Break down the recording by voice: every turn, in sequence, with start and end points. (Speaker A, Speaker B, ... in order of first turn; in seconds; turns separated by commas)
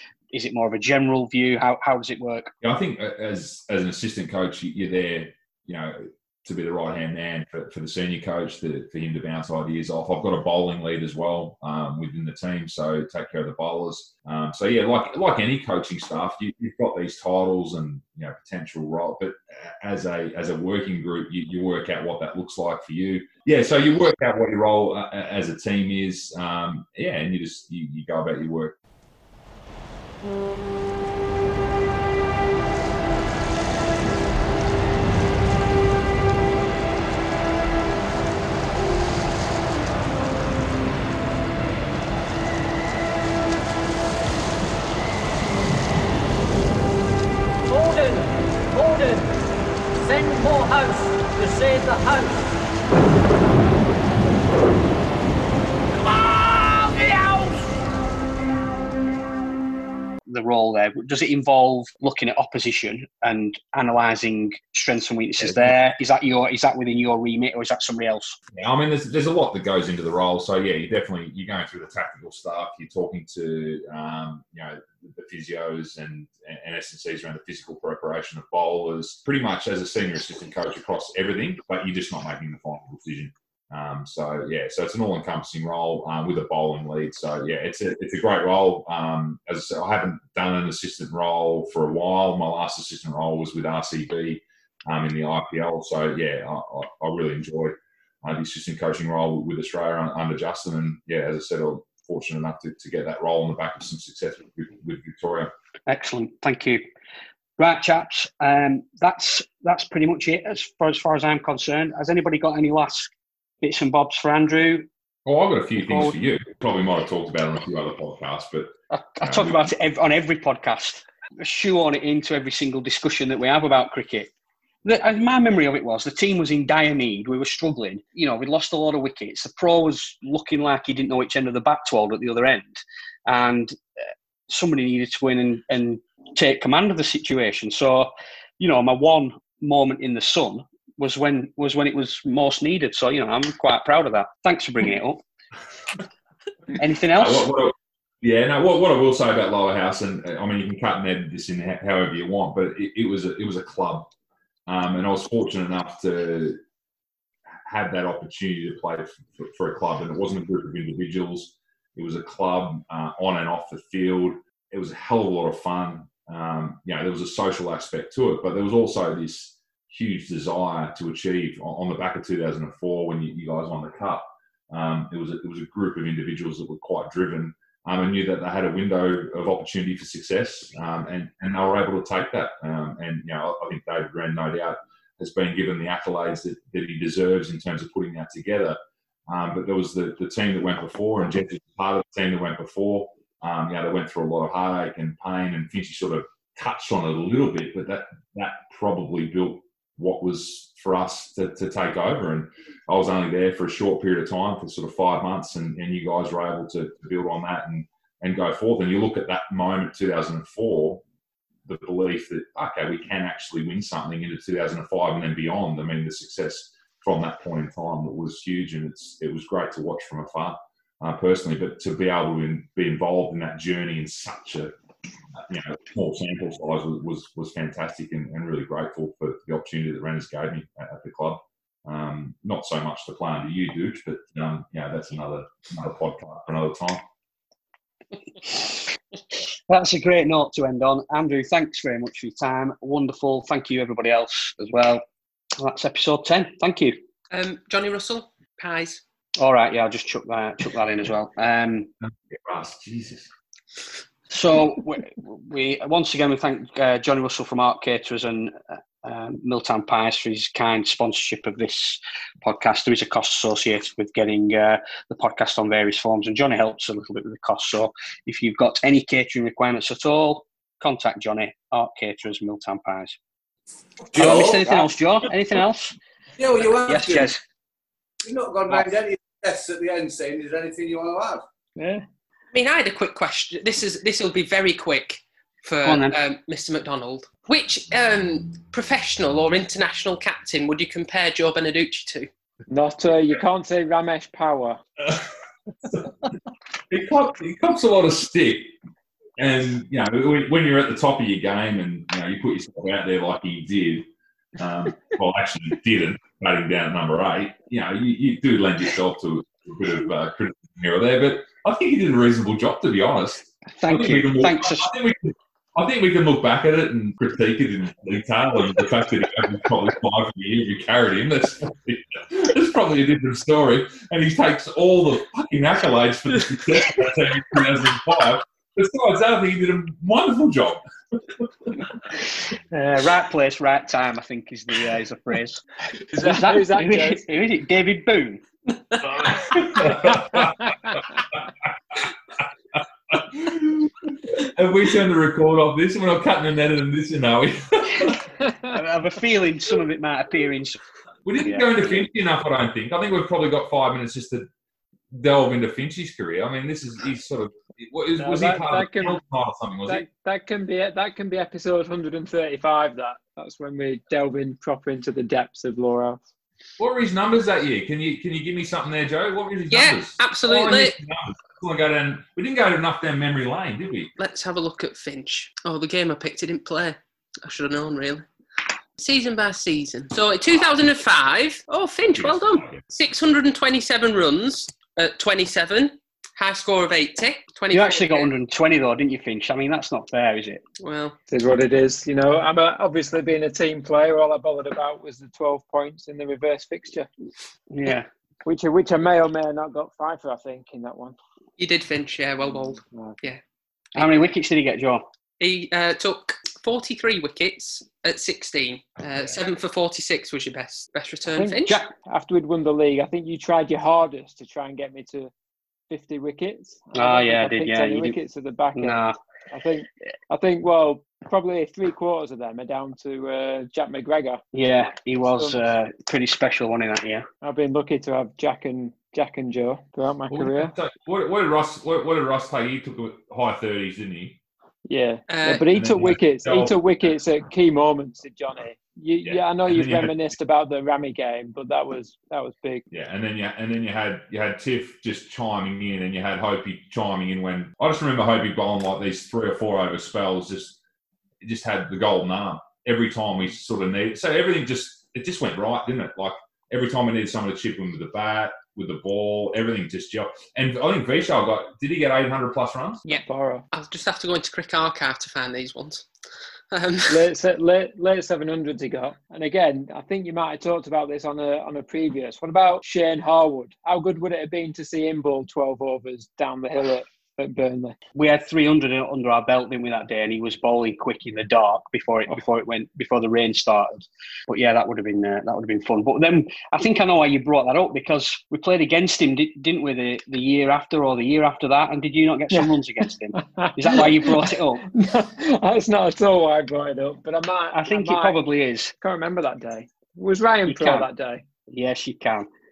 Speaker A: 0.3-2.5, Speaker B: 2.6-28.8, Speaker C: 47.7-49.3, Speaker C: 50.0-52.6, Speaker C: 55.9-57.6, Speaker A: 60.3-68.4, Speaker B: 65.4-65.8, Speaker B: 68.5-105.5, Speaker A: 105.9-106.8, Speaker A: 107.6-113.1, Speaker A: 113.6-114.9, Speaker B: 115.3-119.6, Speaker A: 115.9-116.1, Speaker A: 118.9-124.3, Speaker A: 124.8-145.2, Speaker A: 146.8-147.5, Speaker B: 147.2-154.1, Speaker B: 154.7-156.6, Speaker B: 157.7-211.0, Speaker B: 211.7-224.7, Speaker B: 225.3-237.0, Speaker A: 238.4-238.8, Speaker A: 239.7-245.0, Speaker A: 245.6-247.0, Speaker D: 247.3-249.0, Speaker A: 249.4-251.9, Speaker B: 252.0-253.3, Speaker A: 254.3-273.2, Speaker E: 274.1-274.9, Speaker A: 274.1-276.0, Speaker E: 276.4-277.3, Speaker A: 276.8-277.4, Speaker E: 278.2-281.4, Speaker F: 281.8-282.0, Speaker D: 282.5-292.3, Speaker A: 285.8-286.2, Speaker F: 292.7-294.8, Speaker B: 295.8-296.2, Speaker B: 296.9-298.7, Speaker B: 299.4-331.9, Speaker A: 313.8-314.9, Speaker A: 332.5-335.6, Speaker F: 336.1-337.3, Speaker A: 336.2-338.4, Speaker B: 339.2-340.8, Speaker B: 342.8-348.2, Speaker A: 348.7-350.8, Speaker B: 351.3-354.5, Speaker A: 351.4-352.1, Speaker B: 355.1-360.1, Speaker F: 358.2-359.2, Speaker F: 359.9-366.2, Speaker B: 366.8-374.1, Speaker D: 369.7-370.9, Speaker D: 374.2-378.3, Speaker D: 379.0-388.3, Speaker B: 382.1-382.8, Speaker A: 387.7-390.6, Speaker D: 390.8-391.2, Speaker F: 391.3-397.1, Speaker A: 397.7-398.1, Speaker F: 398.4-401.2, Speaker D: 401.6-403.4, Speaker A: 403.9-405.1, Speaker D: 405.4-411.9, Speaker F: 411.4-415.3, Speaker F: 415.9-424.4, Speaker A: 416.9-418.2, Speaker A: 418.8-419.2, Speaker A: 424.5-427.3, Speaker F: 427.4-430.7, Speaker B: 430.3-434.4, Speaker F: 434.9-442.8, Speaker D: 435.3-435.6, Speaker B: 435.7-436.8, Speaker B: 439.2-440.2, Speaker B: 442.9-450.8, Speaker B: 451.4-463.1, Speaker D: 463.1-466.1, Speaker F: 463.2-463.7, Speaker D: 466.7-467.3, Speaker F: 467.1-478.0, Speaker A: 478.1-494.9, Speaker F: 493.4-498.4, Speaker A: 497.7-498.9, Speaker F: 499.0-501.4, Speaker A: 500.7-501.1, Speaker A: 501.7-502.5